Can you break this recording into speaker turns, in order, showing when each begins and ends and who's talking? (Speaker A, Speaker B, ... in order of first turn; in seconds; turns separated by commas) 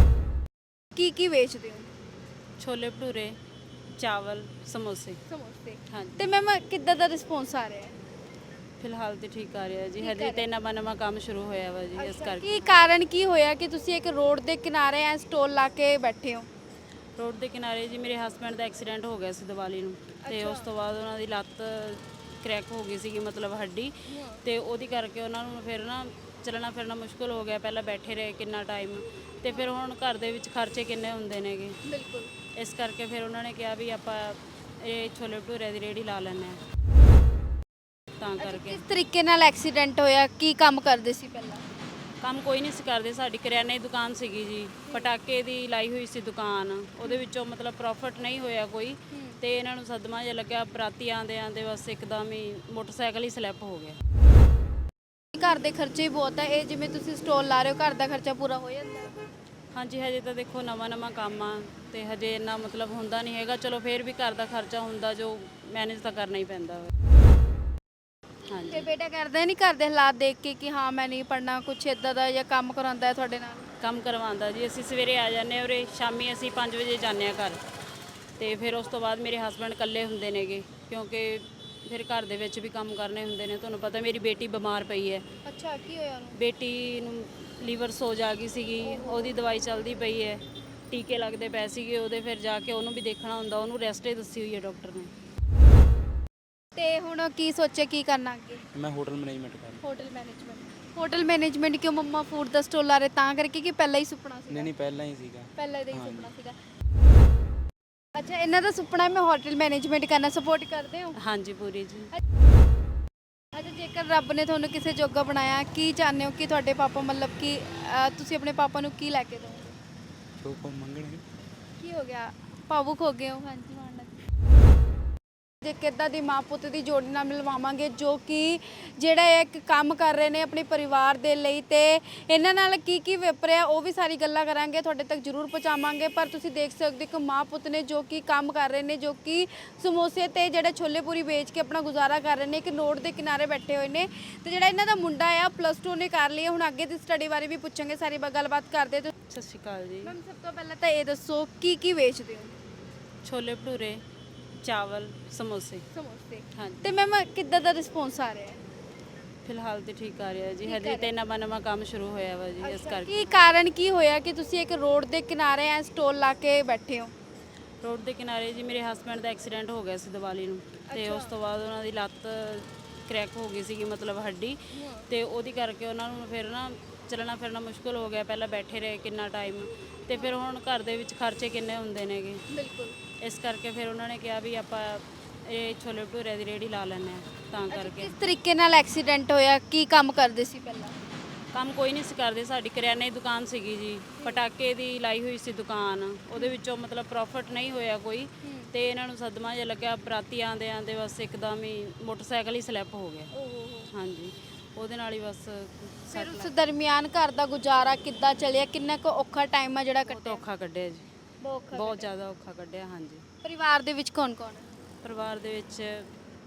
Speaker A: 0.9-1.9, Speaker B: 2.6-3.4, Speaker B: 4.0-5.2, Speaker A: 5.3-7.9, Speaker B: 5.9-6.3, Speaker B: 8.8-12.7, Speaker A: 10.0-10.5, Speaker A: 11.9-16.5, Speaker B: 17.2-31.8, Speaker A: 20.2-20.7, Speaker A: 24.1-24.4, Speaker A: 31.8-32.3, Speaker B: 32.6-36.6, Speaker B: 38.2-38.8, Speaker A: 38.4-41.6, Speaker B: 42.2-54.0, Speaker A: 49.1-49.4, Speaker A: 55.3-59.1, Speaker B: 59.7-66.9, Speaker B: 68.5-68.9, Speaker A: 68.7-73.7, Speaker B: 73.8-77.6, Speaker B: 78.4-85.2, Speaker A: 85.4-86.4, Speaker B: 86.3-95.1, Speaker A: 96.7-98.6, Speaker C: 98.7-99.8, Speaker A: 99.8-104.7, Speaker C: 104.5-106.3, Speaker A: 105.5-106.5, Speaker A: 108.1-111.2, Speaker B: 111.2-112.1, Speaker A: 113.5-119.8, Speaker C: 120.4-121.2, Speaker A: 121.8-124.2, Speaker A: 125.6-149.1, Speaker B: 149.3-150.1, Speaker A: 150.0-152.5, Speaker B: 153.2-154.0, Speaker B: 154.6-155.8, Speaker A: 155.9-158.6, Speaker B: 156.6-157.0, Speaker B: 159.4-163.4, Speaker A: 160.6-161.1, Speaker A: 162.6-167.1, Speaker B: 167.8-174.6, Speaker A: 170.9-171.3, Speaker A: 174.7-175.1, Speaker B: 175.1-182.4, Speaker A: 182.5-183.0, Speaker B: 183.2-188.2, Speaker A: 187.7-191.0, Speaker B: 191.5-203.3, Speaker A: 194.2-194.4, Speaker A: 198.4-198.7, Speaker A: 203.3-203.9, Speaker B: 203.9-206.5, Speaker A: 206.1-210.4, Speaker B: 210.0-211.1, Speaker A: 211.4-212.1, Speaker B: 211.7-213.2, Speaker A: 213.4-214.7, Speaker B: 215.0-216.1